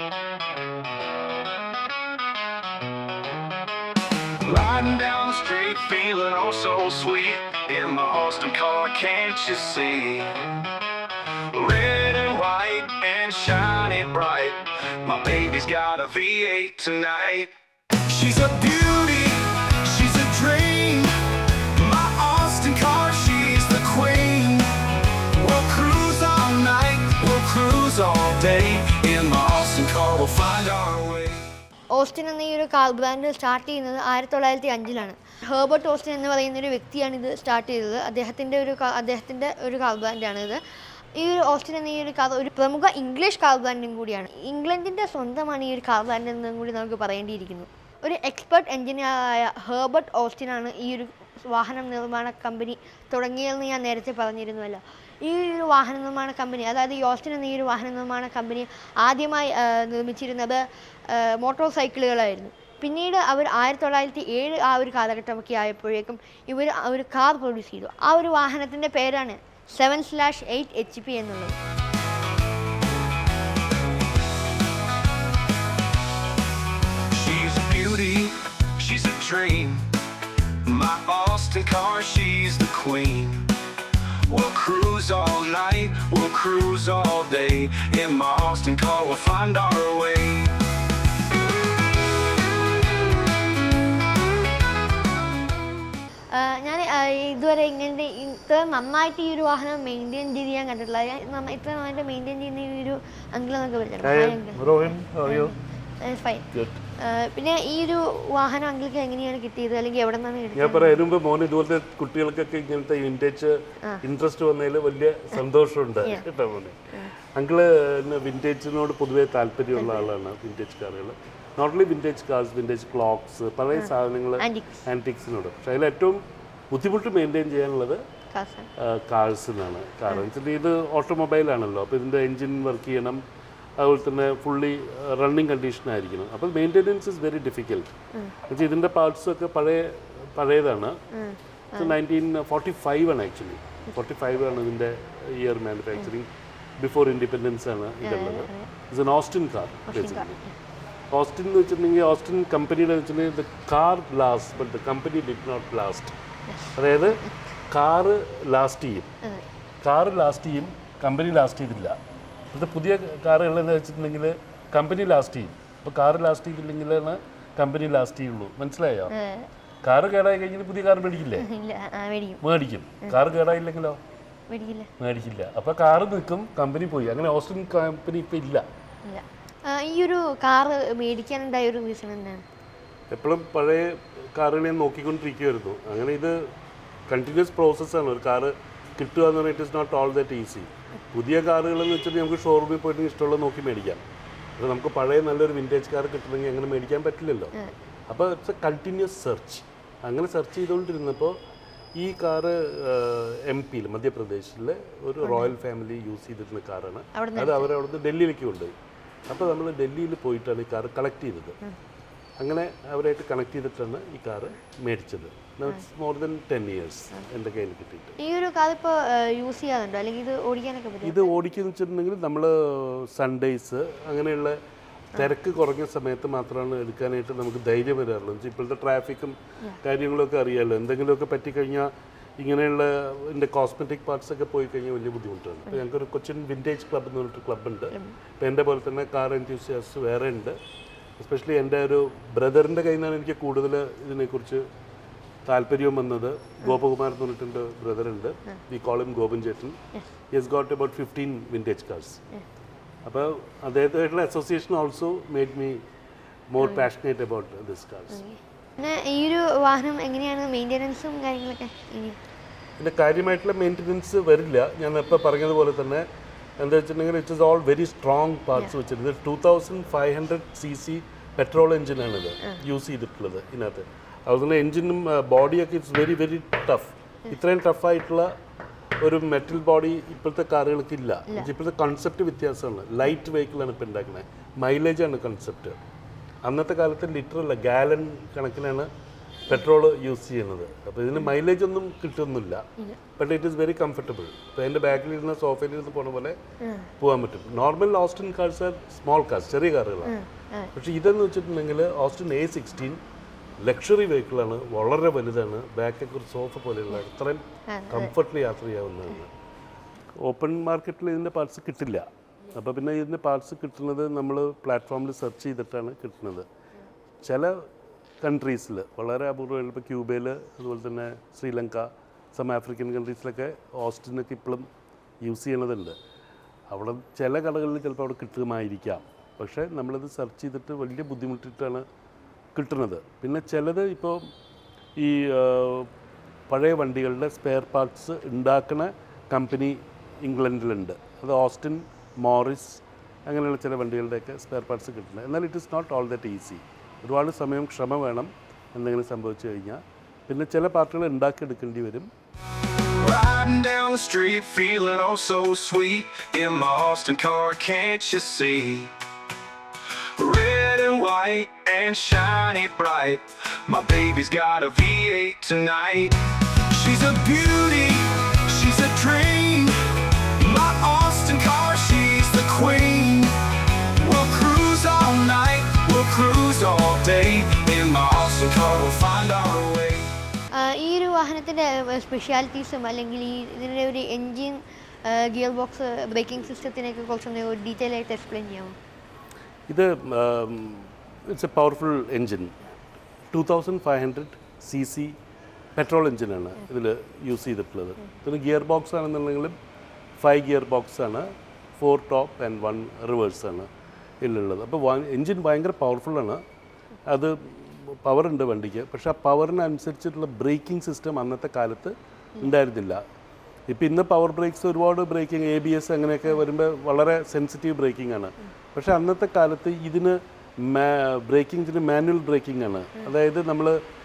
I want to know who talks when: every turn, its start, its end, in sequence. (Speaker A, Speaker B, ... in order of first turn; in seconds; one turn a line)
Speaker A: 4.4-10.5
Speaker A: 11.5-17.5
Speaker A: 18.1-31.4
Speaker B: 31.9-40.6
Speaker B: 41.1-71.5
Speaker A: 77.1-79.9
Speaker A: 80.6-83.5
Speaker A: 84.2-90.6
Speaker B: 96.3-111.0
Speaker C: 104.0-105.5
Speaker C: 106.5-106.8
Speaker C: 110.5-126.2
Speaker B: 119.8-120.1
Speaker B: 123.7-124.8
Speaker C: 126.7-128.0
Speaker B: 128.3-128.7
Speaker C: 128.8-133.2
Speaker C: 133.8-137.9
Speaker C: 138.5-141.0
Speaker B: 141.1-142.0
Speaker C: 141.8-146.3
Speaker C: 146.8-150.4
Speaker B: 148.0-148.7
Speaker B: 149.9-150.5
Speaker C: 151.1-156.1
Speaker B: 156.5-157.3
Speaker C: 156.8-159.1
Speaker C: 159.8-162.0
Speaker C: 162.5-169.1
Speaker B: 169.1-169.5
Speaker C: 169.8-171.5
Speaker B: 171.3-172.4
Speaker C: 172.4-174.0
Speaker B: 174.5-174.9
Speaker C: 175.0-178.6
Speaker B: 179.0-182.4
Speaker C: 183.1-186.4
Speaker C: 187.1-194.0
Speaker C: 194.6-197.5
Speaker C: 198.1-201.4
Speaker C: 201.9-208.7
Speaker B: 205.2-205.5
Speaker B: 207.1-207.7
Speaker C: 209.3-211.6
Speaker C: 212.4-218.2
Speaker B: 218.2-221.3
Speaker C: 221.0-224.6
Speaker C: 225.1-240.6
Speaker B: 237.9-238.2
Speaker C: 241.2-244.7
Speaker C: 245.4-249.8
Speaker C: 250.3-252.2
Speaker C: 253.0-255.8
Speaker C: 256.5-258.2
Speaker B: 256.6-256.9
Speaker B: 258.1-262.2
Speaker C: 262.8-266.1
Speaker C: 266.6-278.3
Speaker C: 279.0-285.8
Speaker C: 286.4-288.9
Speaker C: 289.5-292.6
Speaker C: 293.1-296.4
Speaker B: 296.6-296.9
Speaker C: 297.0-300.1
Speaker B: 300.0-300.7
Speaker C: 300.7-303.0
Speaker C: 303.6-309.3
Speaker B: 307.7-308.1
Speaker C: 310.2-316.5
Speaker C: 317.2-317.7
Speaker C: 318.2-324.7
Speaker C: 325.2-326.0
Speaker C: 326.7-331.8
Speaker C: 332.5-334.2
Speaker C: 335.0-335.9
Speaker C: 336.5-352.1
Speaker A: 353.0-358.9
Speaker A: 359.9-373.4
Speaker A: 374.0-380.1
Speaker B: 380.5-388.8
Speaker C: 389.7-392.5
Speaker C: 393.3-395.1
Speaker C: 395.8-399.5
Speaker C: 400.2-403.7
Speaker C: 404.2-406.4
Speaker C: 407.1-413.0
Speaker C: 413.7-423.8